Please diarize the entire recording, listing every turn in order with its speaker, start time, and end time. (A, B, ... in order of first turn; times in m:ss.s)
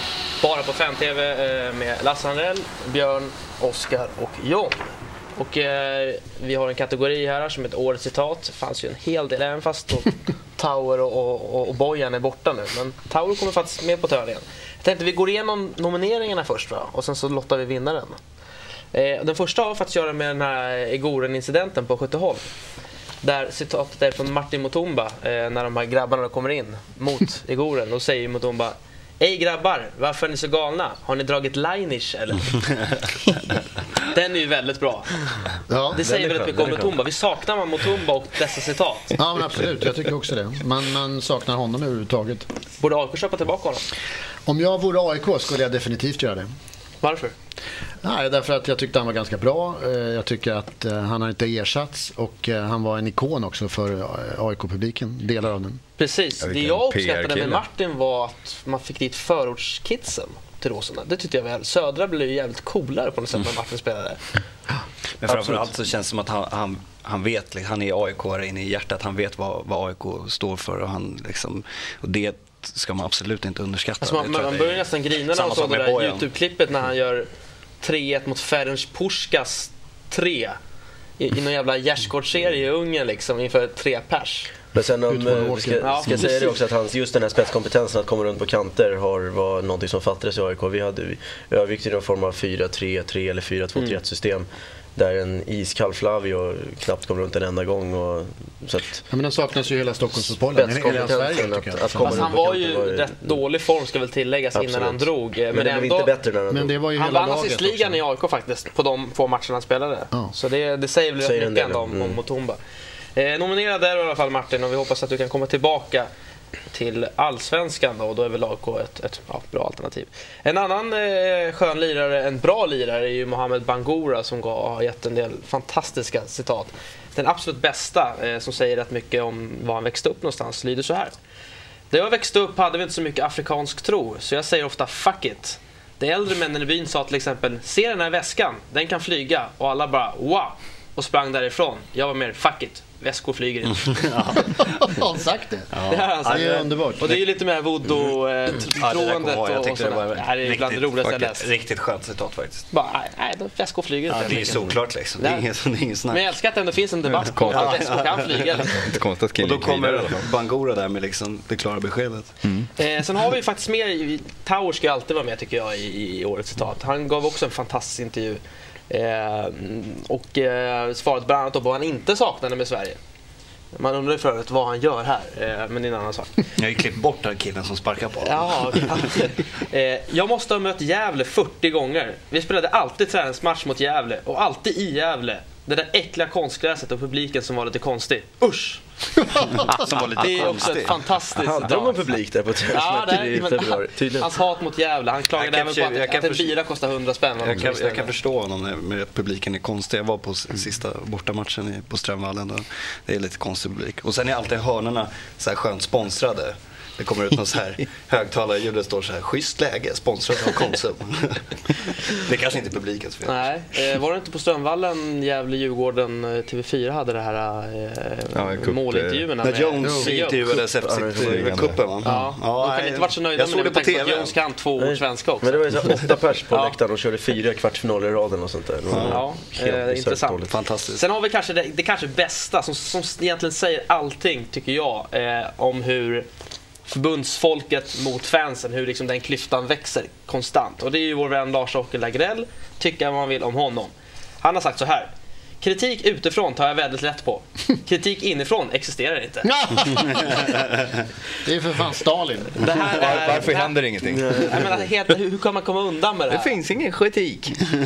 0:00.4-0:18.2 A
0:18.9-0:22.4 A
0:23.2-0:32.7 A
0:34.0-0:35.1 A
0:35.7-0:36.0 B
0:35.9-0:39.2 A
0:36.0-0:37.0 C
0:39.2-0:42.5 B
0:42.8-0:43.9 A
0:44.5-0:46.5 B
0:47.0-0:47.3 A
0:48.0-0:55.8 B
0:56.0-1:04.2 A
0:56.4-0:57.6 D
1:05.2-1:16.3 E
1:05.2-1:05.6 C
1:14.0-1:17.3 A
1:17.8-1:20.6 A
1:21.2-1:24.5 A
1:24.7-1:39.0 C
1:25.1-1:26.4 B
1:25.8-1:26.5 A
1:39.1-1:42.4 B
1:40.5-1:43.4 C
1:42.0-1:46.1 A
1:44.5-1:46.7 C
1:46.5-1:48.0 B
1:47.0-1:52.6 A
1:51.2-1:52.2 C
1:53.1-1:56.1 A
1:56.7-2:11.1 A
2:11.9-2:24.0 A
2:23.9-2:24.8 E
2:24.5-2:25.7 B
2:25.7-2:26.3 E
2:25.9-2:31.5 A
2:26.2-2:27.1 B
2:28.7-2:32.6 E
2:32.7-2:35.5 A
2:34.1-2:36.2 E
2:36.1-2:38.9 A
2:37.1-2:37.8 D
2:37.4-2:38.8 E
2:38.8-2:40.2 D
2:39.4-2:42.3 E
2:42.8-2:53.0 A
2:53.7-2:56.4 A
2:56.6-2:59.0 E
2:58.2-3:08.8 A
3:09.6-3:12.0 A
3:09.7-3:11.0 E
3:11.4-3:14.3 C
3:12.7-3:18.1 A
3:15.4-3:16.5 E
3:17.4-3:33.5 E
3:33.2-3:40.5 A
3:38.3-3:39.3 D
3:39.4-3:44.3 E
3:39.8-3:40.1 B
3:40.7-3:41.6 C
3:41.3-3:41.8 D
3:42.0-3:42.3 B
3:42.0-3:45.9 A
3:44.8-3:50.5 C
3:46.5-3:46.8 A
3:48.9-3:49.2 E
3:49.0-3:50.4 A
3:50.5-3:51.0 E
3:50.9-3:56.3 A
3:56.8-4:09.8 A
4:09.5-4:10.5 B
4:11.4-4:12.7 B
4:12.6-4:16.6 A
4:12.8-4:14.4 D
4:14.1-4:14.9 C
4:16.3-4:17.6 D